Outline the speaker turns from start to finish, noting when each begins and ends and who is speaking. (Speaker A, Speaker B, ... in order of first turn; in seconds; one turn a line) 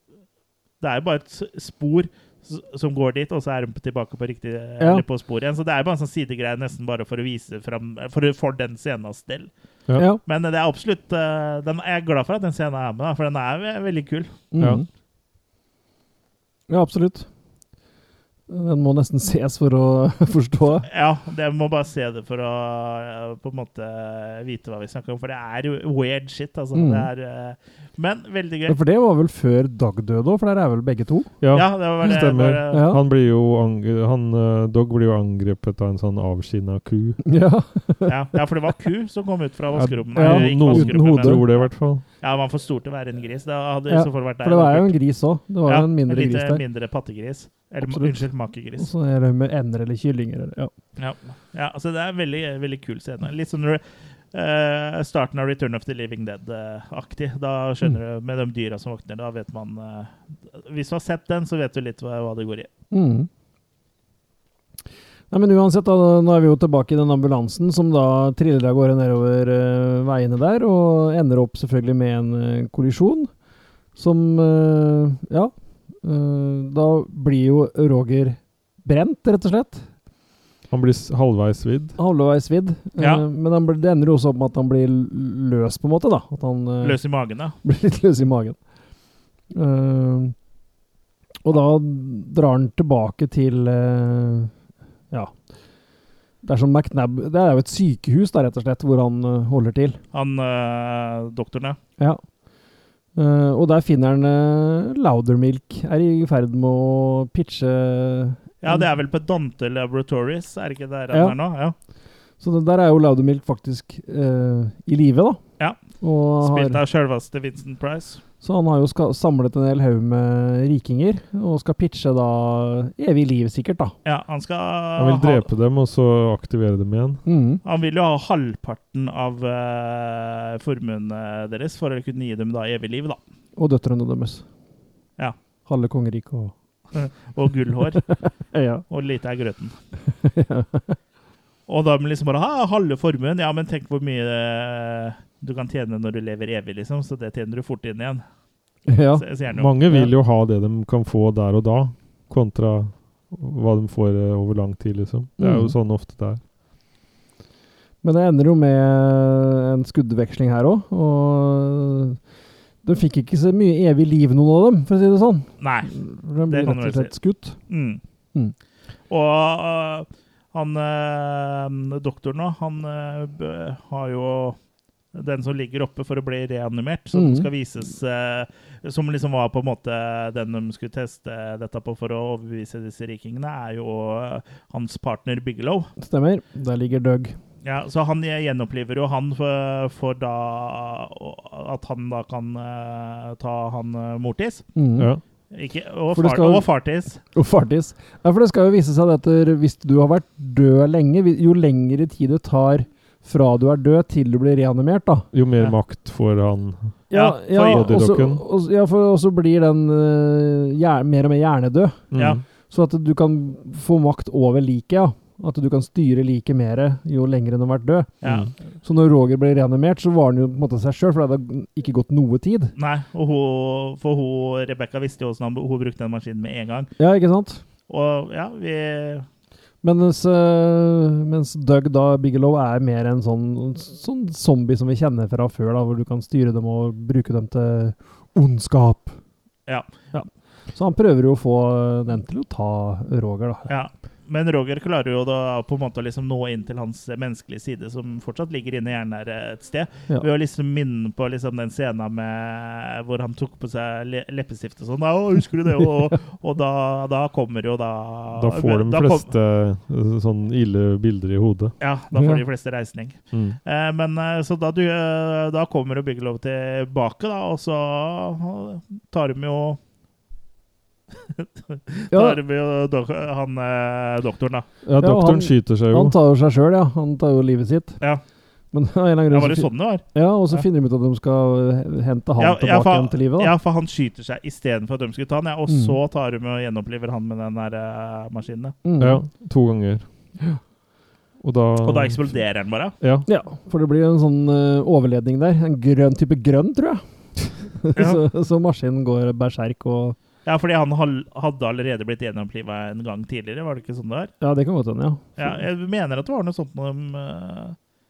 Speaker A: 0.8-9.5
Speaker B: 9.9-10.2
Speaker A: 10.2-14.3
Speaker B: 14.5-14.9
Speaker B: 16.7-17.3
Speaker B: 18.5-20.9
Speaker A: 20.9-28.8
Speaker B: 26.7-27.1
Speaker B: 28.7-31.3
Speaker C: 31.4-37.2
Speaker A: 31.5-32.9
Speaker B: 32.7-33.0
Speaker B: 37.2-38.1
Speaker A: 38.1-41.7
Speaker C: 39.7-42.0
Speaker B: 40.1-41.5
Speaker A: 42.2-44.9
Speaker B: 43.9-46.6
Speaker A: 45.6-48.9
Speaker B: 47.8-50.7
Speaker A: 51.0-53.8
Speaker A: 54.3-62.7
Speaker B: 62.9-63.3
Speaker B: 65.3-73.3
Speaker B: 74.0-79.9
Speaker C: 80.7-82.0
Speaker B: 82.0-87.0
Speaker A: 83.0-83.2
Speaker A: 86.8-87.5
Speaker B: 87.6-88.6
Speaker B: 89.5-90.3
Speaker B: 91.4-94.5
Speaker B: 96.4-100.0
Speaker A: 100.1-101.8
Speaker B: 103.2-108.8
Speaker A: 108.6-111.7
Speaker B: 111.1-111.3
Speaker B: 112.4-115.4
Speaker B: 116.0-116.8
Speaker A: 116.4-118.2
Speaker B: 118.4-123.9
Speaker A: 124.0-125.5
Speaker C: 125.0-127.2
Speaker B: 127.2-127.6
Speaker A: 127.6-133.2
Speaker B: 133.6-134.4
Speaker B: 135.7-136.5
Speaker A: 136.9-138.1
Speaker B: 138.5-138.8
Speaker A: 138.9-139.7
Speaker B: 140.2-140.9
Speaker A: 141.7-148.2
Speaker B: 148.9-149.2
Speaker A: 149.1-149.9
Speaker C: 149.5-156.4
Speaker B: 155.4-155.7
Speaker B: 158.0-162.2
Speaker B: 162.8-167.6
Speaker A: 165.6-165.9
Speaker A: 166.5-167.1
Speaker A: 167.7-168.0
Speaker A: 169.1-174.6
Speaker A: 175.1-185.9
Speaker B: 177.1-177.5
Speaker B: 186.0-187.4
Speaker A: 187.6-194.6
Speaker B: 194.7-195.1
Speaker A: 195.5-197.2
Speaker B: 196.1-196.7
Speaker B: 197.3-205.3
Speaker C: 205.3-207.0
Speaker B: 207.1-212.0
Speaker A: 207.1-207.9
Speaker C: 207.6-208.4
Speaker C: 212.1-212.4
Speaker A: 212.1-212.4
Speaker B: 212.7-218.1
Speaker A: 218.2-218.5
Speaker B: 218.8-222.7
Speaker A: 222.8-226.9
Speaker B: 227.0-227.6
Speaker A: 227.9-229.2
Speaker B: 229.8-239.2
Speaker B: 240.1-243.7
Speaker A: 243.7-259.3
Speaker C: 258.3-261.7
Speaker A: 261.8-269.8
Speaker B: 262.1-262.4
Speaker C: 263.3-263.6
Speaker A: 271.3-274.6
Speaker B: 272.1-272.4
Speaker C: 274.8-276.1
Speaker B: 275.0-278.0
Speaker B: 278.7-283.5
Speaker A: 279.3-280.6
Speaker A: 282.4-288.8
Speaker B: 285.7-285.9
Speaker B: 288.8-289.2
Speaker C: 289.0-290.1
Speaker C: 291.4-292.2
Speaker A: 291.8-292.9
Speaker C: 293.0-293.3
Speaker B: 293.2-297.0
Speaker B: 297.8-300.1
Speaker A: 297.9-298.2
Speaker A: 300.4-304.3
Speaker B: 304.4-305.6
Speaker A: 305.4-307.8